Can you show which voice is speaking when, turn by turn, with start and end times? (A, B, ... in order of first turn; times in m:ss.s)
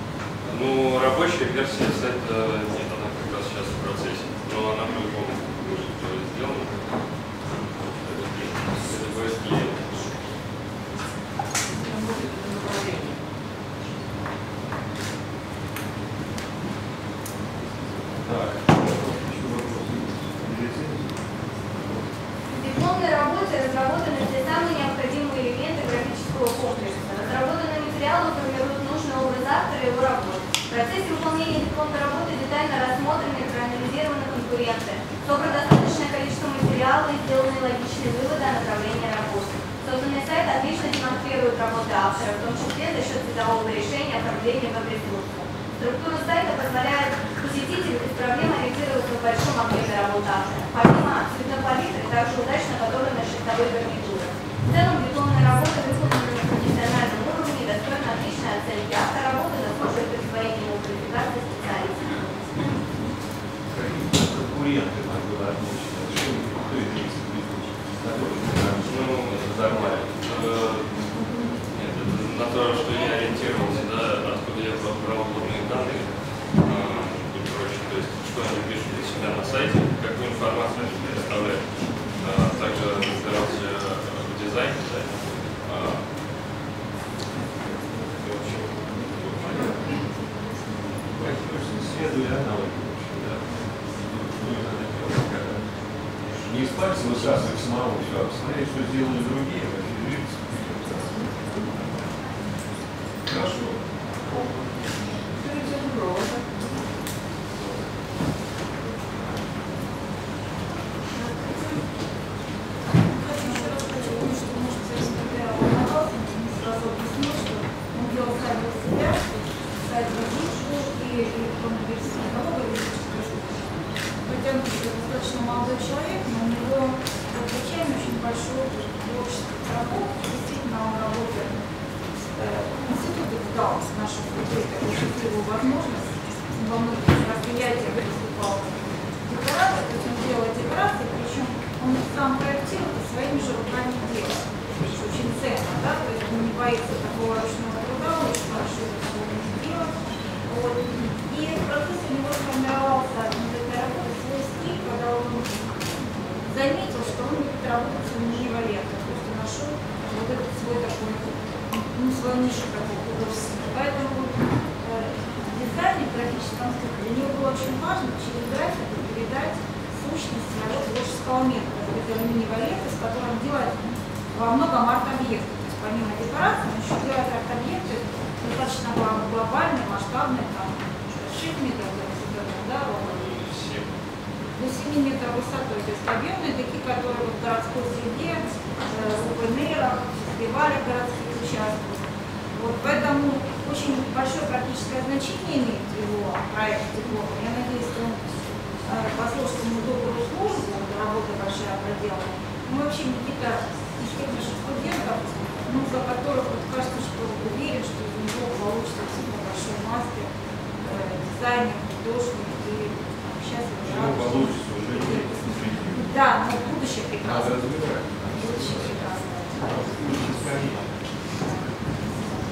0:00.4-0:06.9 A
0:07.6-0:10.1 A
0:11.8-0:13.2 B
0:18.2-0:22.1 C
0:22.5-1:02.4 D
1:03.7-1:10.2 C
1:08.8-1:11.0 A
1:11.7-1:26.0 A
1:28.2-1:29.7 A
1:31.1-1:35.6 C
1:36.4-1:41.8 C
1:43.2-1:44.8 C
1:45.4-1:46.5 B
1:51.2-1:51.6 E
1:53.1-1:59.3 E
1:59.8-2:03.7 E
2:04.2-2:11.6 E
2:12.4-2:35.5 E
2:36.5-3:03.4 E
3:03.0-3:03.9 A
3:04.6-3:18.2 E
3:18.8-3:30.3 E
3:30.8-3:37.6 E
3:33.8-3:36.1 C
3:37.2-3:40.9 C
3:38.3-3:39.8 E